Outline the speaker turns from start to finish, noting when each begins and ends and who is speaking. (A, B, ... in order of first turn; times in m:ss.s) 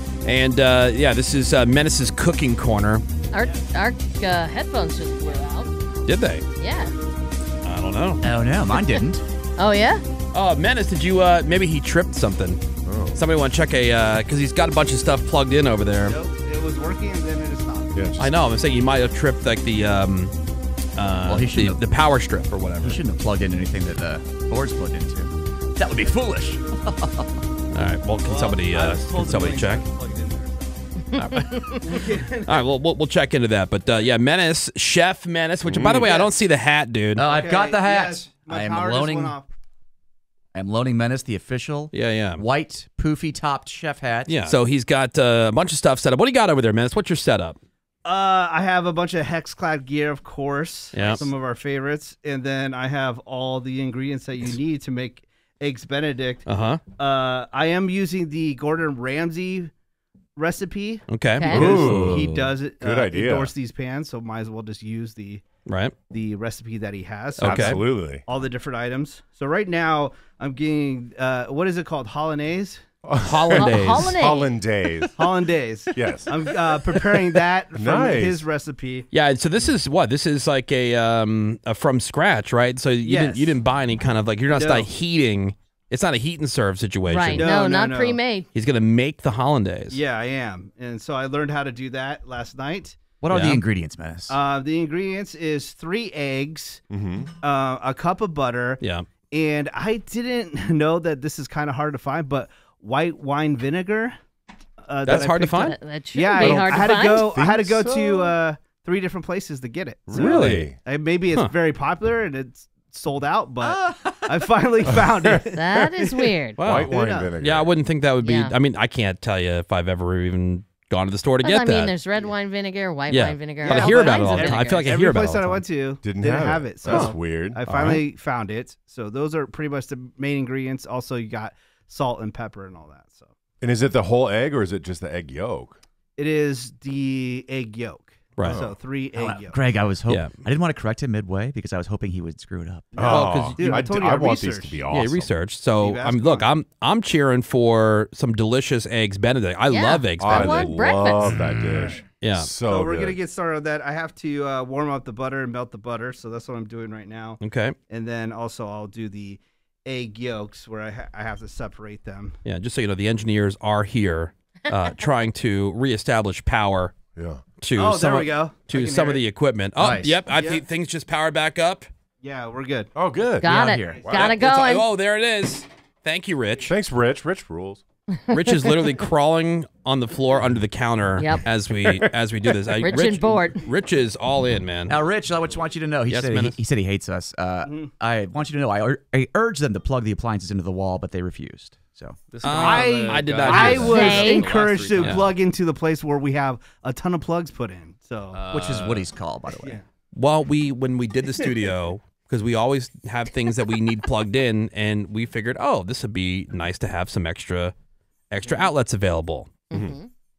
0:00.2-0:03.0 A
0:03.3-0:05.7 B
0:06.1-0:06.4 A
0:06.6-0:06.9 B
0:07.6-0:08.2 A
0:08.2-0:09.2 C
0:08.7-0:09.0 B
0:09.6-0:10.0 B
0:10.3-0:12.6 A
0:12.9-0:13.2 D
0:13.2-0:16.2 A
0:16.1-0:18.1 E
0:18.0-0:18.3 D
0:18.2-0:20.3 A
0:21.0-0:23.0 A
0:21.3-0:21.9 C
0:22.8-0:27.4 C
0:27.7-0:29.8 A
0:28.2-0:30.9 E
0:31.1-0:37.3 A
0:31.3-0:31.7 B
0:31.8-0:32.6 E
0:35.6-0:36.2 D
0:35.9-0:36.4 E
0:37.2-0:39.4 C
0:37.2-0:39.5 E
0:40.5-0:44.6 C
0:41.9-0:42.4 A
0:44.3-0:47.6 A
0:48.0-0:56.4 E
0:50.9-0:51.3 A
0:56.5-0:56.8 A
0:57.0-0:59.7 E
1:00.4-1:05.4 E
1:01.1-1:01.9 A
1:01.4-1:01.7 B
1:01.5-1:02.2 D
1:01.5-1:02.5 C
1:02.8-1:03.5 D
1:05.7-1:05.9 A
1:06.1-1:12.8 E
1:07.4-1:07.8 A
1:07.4-1:08.2 D
1:13.0-1:15.3 D
1:13.2-1:14.2 A
1:13.6-1:14.5 B
1:15.2-1:19.1 E
1:15.9-1:18.5 D
1:19.1-1:27.5 A
1:23.0-1:23.5 E
1:24.5-1:24.9 E
1:27.1-1:28.5 B
1:27.4-1:28.2 E
1:28.5-1:30.0 A
1:29.9-1:33.0 E
1:33.2-1:34.4 C
1:33.3-1:33.6 A
1:34.3-1:44.2 E
1:36.9-1:37.3 D
1:38.8-1:39.1 A
1:44.8-1:55.7 E
1:45.0-1:45.8 A
1:45.6-1:47.3 B
1:46.4-1:48.4 D
1:50.1-1:50.8 D
1:50.2-1:50.7 A
1:53.6-1:54.5 C
1:54.9-1:55.6 D
1:55.5-1:56.6 B
1:56.6-1:57.7 D
1:56.6-2:01.9 A
1:56.9-1:57.3 E
1:58.2-1:58.5 B
2:01.4-2:05.0 B
2:03.1-2:05.6 A
2:03.6-2:13.3 E
2:06.0-2:07.6 D
2:06.9-2:08.0 A
2:13.6-2:15.8 D
2:16.2-2:19.6 E
2:18.4-2:18.8 D
2:19.1-2:23.2 C
2:20.1-2:20.4 A
2:22.9-2:25.3 D
2:23.0-2:24.8 E
2:23.0-2:23.6 A
2:24.9-2:30.8 A
2:25.8-2:26.5 E
2:29.7-2:31.4 B
2:30.2-2:33.2 D
2:31.7-2:32.0 E
2:32.2-2:32.5 A
2:32.7-2:42.4 E
2:37.4-2:37.8 A
2:42.4-2:47.0 A
2:47.2-2:47.4 D
2:47.6-2:51.9 A
2:47.8-2:49.2 E
2:49.8-2:50.2 C
2:50.3-2:50.6 E
2:52.2-2:52.9 E
2:53.0-2:54.3 D
2:53.4-2:54.9 B
2:53.4-2:54.0 C
2:53.9-2:54.2 E
2:54.1-2:56.7 A
2:56.7-2:57.8 D
2:58.2-2:58.9 B
2:58.3-3:05.0 A
3:01.2-3:01.4 B
3:02.8-3:03.6 B
3:04.9-3:13.9 C
3:06.1-3:06.6 A
3:07.6-3:07.9 E
3:12.4-3:15.3 A
3:12.5-3:18.4 E
3:13.2-3:15.2 D
3:13.6-3:14.6 B
3:18.4-3:19.8 C
3:18.4-3:19.0 A
3:20.1-3:27.7 A
3:28.3-3:29.6 A
3:29.7-3:30.1 B
3:29.7-3:30.0 D